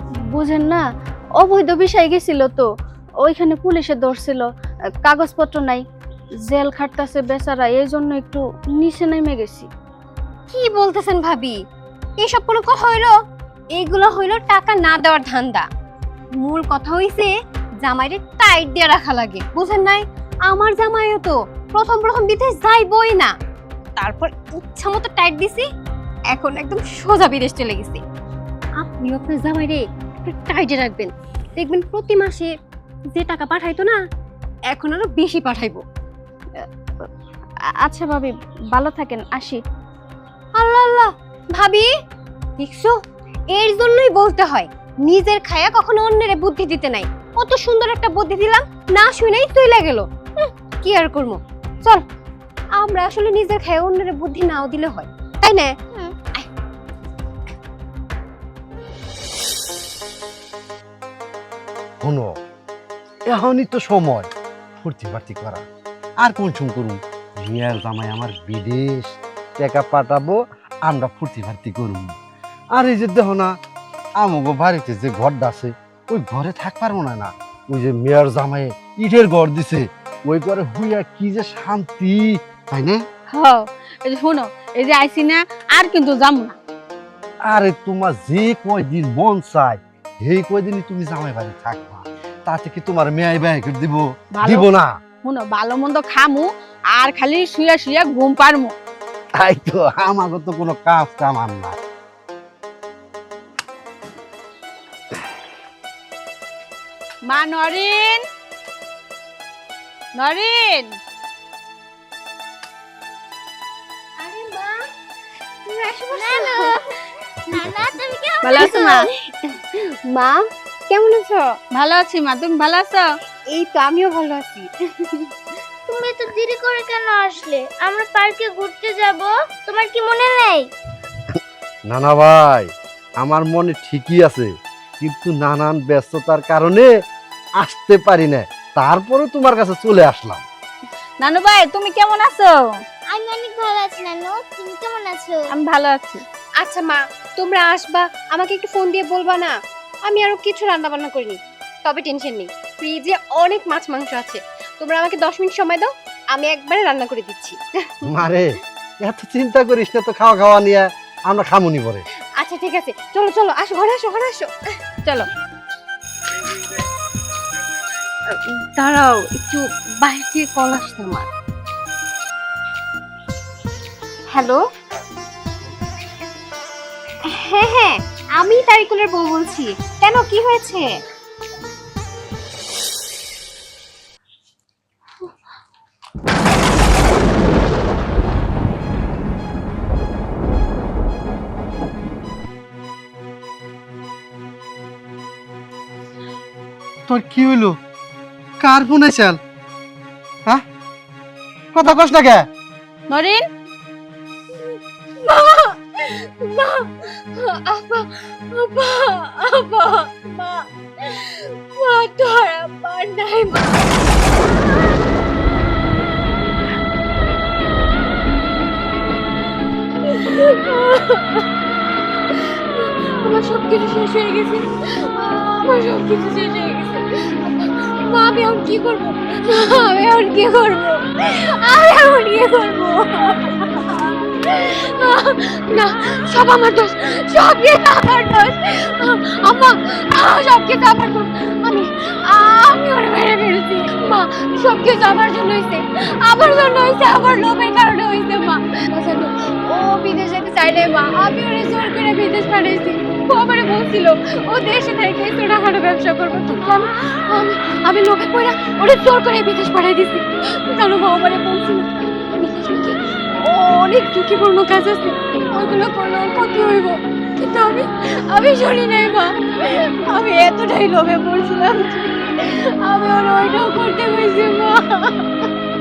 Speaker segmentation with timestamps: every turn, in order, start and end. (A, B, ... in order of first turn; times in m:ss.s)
0:00.3-0:00.8 A
0:01.4-0:02.7 A
0:03.2-0:04.4 A
0:05.0-0:05.8 A
0:06.5-0:09.7 A
0:10.5-0:11.6 B
0:12.2-0:13.1 B
0:13.7-0:15.7 B
0:16.4-0:23.3 B
0:24.0-0:25.7 B
0:26.3-0:28.0 B
0:28.8-0:32.5 B
0:33.1-0:34.0 B
0:34.7-0:35.8 B
0:37.8-0:39.6 A
0:40.6-0:41.9 B
0:42.6-0:42.9 B
0:43.5-0:52.0 B
0:52.8-0:55.8 B
1:02.0-1:02.3 C
1:03.3-1:04.3 C
1:04.8-1:05.6 C
1:06.2-1:12.1 C
1:12.7-1:13.5 C
1:14.2-1:23.0 C
1:23.3-1:26.6 D
1:27.5-1:34.9 C
1:34.3-1:34.7 D
1:35.2-1:38.7 D
1:39.4-1:41.8 C
1:47.2-1:48.2 D
1:50.1-1:51.0 D
1:54.2-1:54.8 B
1:55.6-1:56.8 B
1:56.1-1:56.8 E
1:57.5-1:58.9 E
1:58.4-1:59.0 D
1:58.6-2:01.5 B
2:01.7-2:03.1 D
2:03.5-2:05.3 B
2:05.9-2:10.6 E
2:11.9-2:16.9 C
2:17.6-2:20.4 C
2:21.2-2:22.8 D
2:23.1-2:25.5 E
2:25.5-2:26.2 D
2:26.6-2:29.5 B
2:30.0-2:37.9 B
2:38.0-2:38.4 C
2:39.0-2:42.0 C
2:42.4-2:44.5 B
2:48.3-2:51.3 B
2:54.3-2:54.6 B
2:57.3-3:00.9 B
3:17.1-3:17.8 C
3:18.6-3:19.4 C
3:21.7-3:22.4 C
3:23.1-3:23.5 D
3:25.2-3:35.0 B
3:40.1-3:41.5 B
3:42.3-4:35.4 B